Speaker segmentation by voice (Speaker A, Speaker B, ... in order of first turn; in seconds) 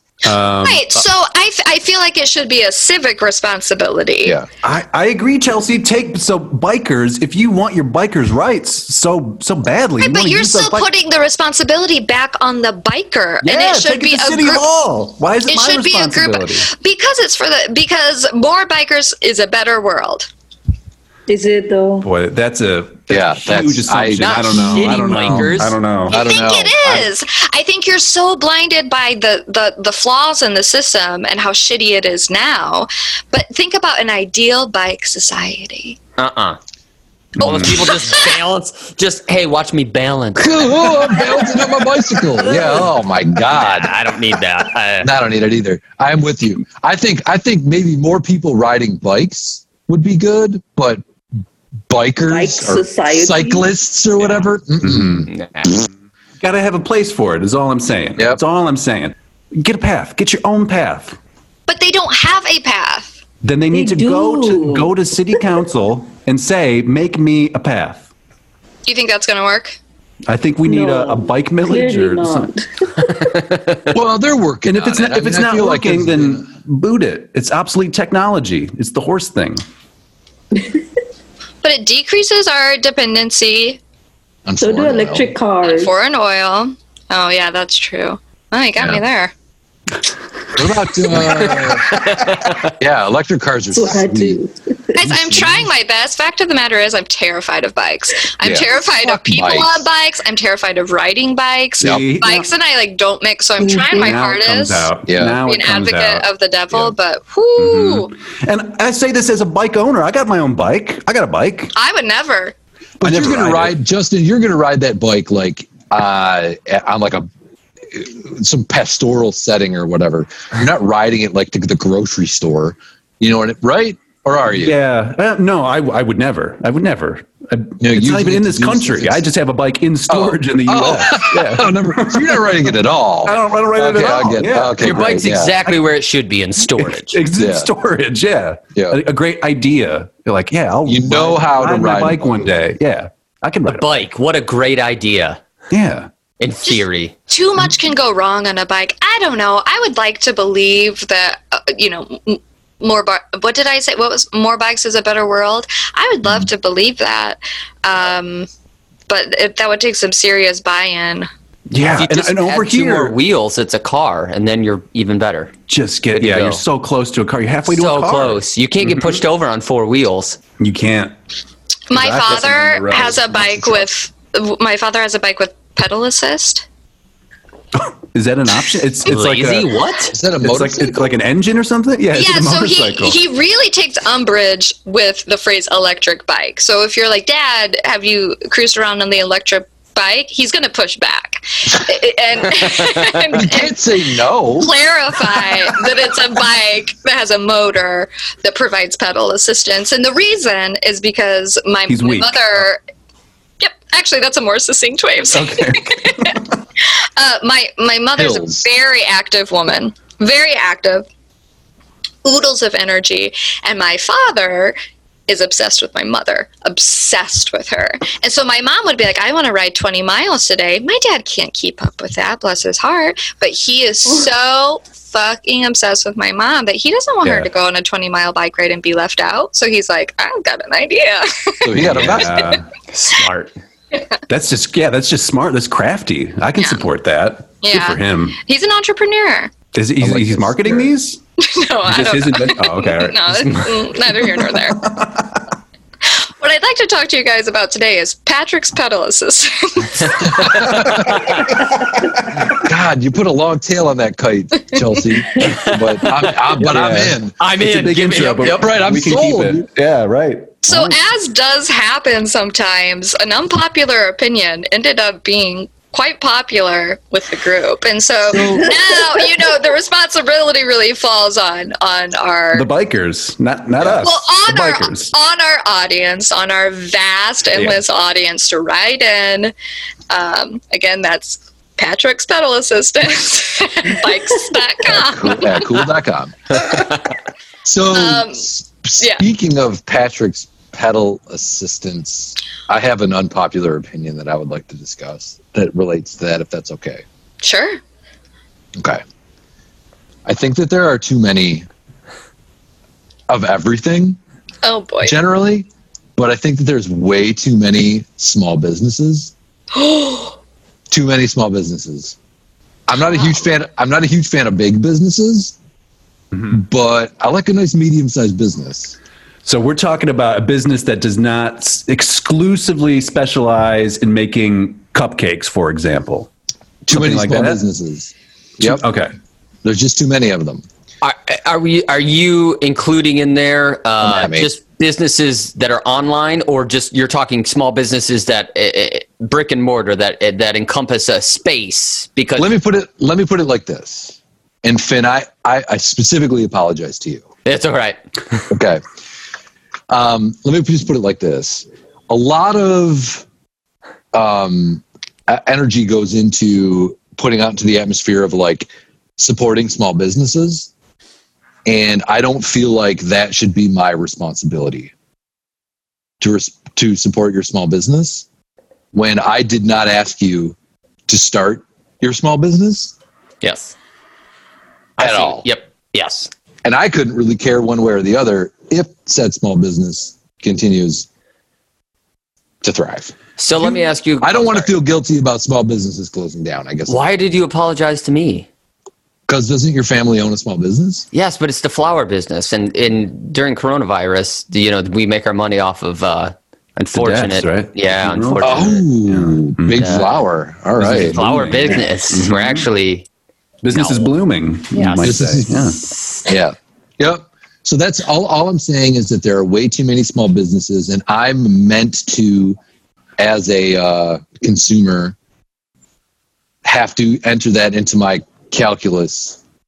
Speaker A: 0.2-0.9, 4.6-10.9, 13.4-16.7, 22.0-26.2, 37.4-37.9, 54.8-55.3, 56.4-61.2, 63.4-68.1, 70.3-72.5, 74.7-79.6, 101.8-102.5, 103.9-106.9, 107.6-111.7, 113.0-113.7, 124.6-132.5, 133.2-135.1, 136.8-144.1, 145.7-146.1, 161.7-163.2, 165.7-169.2, 170.6-171.1, 171.9-173.7, 177.7-179.8, 180.4-183.2, 201.9-202.4, 205.3-206.4, 227.2-227.5, 231.7-232.7, 234.3-238.4, 239.7-241.2, 241.8-245.4, 251.5-252.6, 256.6-260.9, 272.5-275.1, 277.5-277.8, 316.3-316.6, 319.4-326.3, 326.9-327.6, 328.6-329.1, 396.9-400.1, 400.8-402.6, 403.6-405.8
Speaker B: 0.6-4.4, 10.0-14.7, 15.5-20.3, 26.1-36.0, 61.7-63.2, 68.8-69.8, 81.6-83.8, 85.6-89.3, 95.0-104.9, 105.4-108.1, 111.7-112.5, 146.6-158.5, 159.1-161.3, 171.9-176.6, 182.1-193.9, 194.6-202.8, 203.6-206.4, 207.2-211.1, 212.2-214.8, 215.3-232.6, 236.6-236.9, 237.6-239.6, 241.4-244.9, 246.1-250.7, 260.6-272.7, 274.0-279.5, 280.1-285.8, 287.9-288.4, 297.4-297.8, 304.6-305.1, 309.7-310.3, 313.1-313.4
Speaker C: 21.3-22.1, 52.2-53.7, 63.7-65.4, 70.6-72.7, 84.6-85.9, 93.7-95.0, 103.6-104.1, 268.5-269.2
Speaker D: 23.1-27.1, 40.3-44.0, 45.0-51.0, 51.9-55.3, 73.9-76.5, 84.4-85.3, 90.5-92.0, 92.8-94.4, 95.0-95.7, 98.4-99.8, 105.1-105.4, 113.0-117.3, 117.9-124.7, 127.8-129.3, 130.1-135.5, 137.3-137.7, 140.8-142.5, 180.1-181.1, 193.3-194.7, 208.2-208.7, 231.6-232.5, 240.0-240.9, 250.4-251.2, 252.5-257.3, 258.4-259.6, 268.3-268.7, 273.8-274.1, 284.8-286.6, 287.6-297.0, 298.8-299.0, 300.2-301.7, 303.3-304.2, 305.0-309.3, 310.9-312.1, 312.9-315.6, 316.5-318.9, 326.9-328.8, 329.6-330.6, 334.0-334.5, 342.4-347.2, 348.5-348.8, 349.9-353.2, 354.1-360.7, 361.6-364.9, 366.2-368.2, 368.9-370.6, 371.1-372.9, 375.0-375.4, 376.6-381.1, 382.6-387.0, 389.3-391.1, 398.4-401.2, 405.0-405.7, 406.2-412.6, 413.2-415.1, 416.6-419.4
Speaker E: 24.2-25.7, 36.2-36.6, 37.4-41.3, 43.5-45.1, 55.3-55.8, 73.0-73.8, 91.2-92.7, 134.8-137.2, 143.7-145.4, 146.4-147.1, 161.8-165.5, 166.1-166.6, 167.7-170.4, 179.1-180.1, 232.9-233.5, 250.4-251.5, 255.4-256.6, 257.4-258.7, 331.0-342.5, 347.4-348.4, 373.4-373.7, 375.0-376.3, 383.4-384.7, 386.9-388.5, 391.1-398.8, 399.7-400.1, 400.9-403.1, 403.7-404.1, 404.7-405.2, 405.9-406.2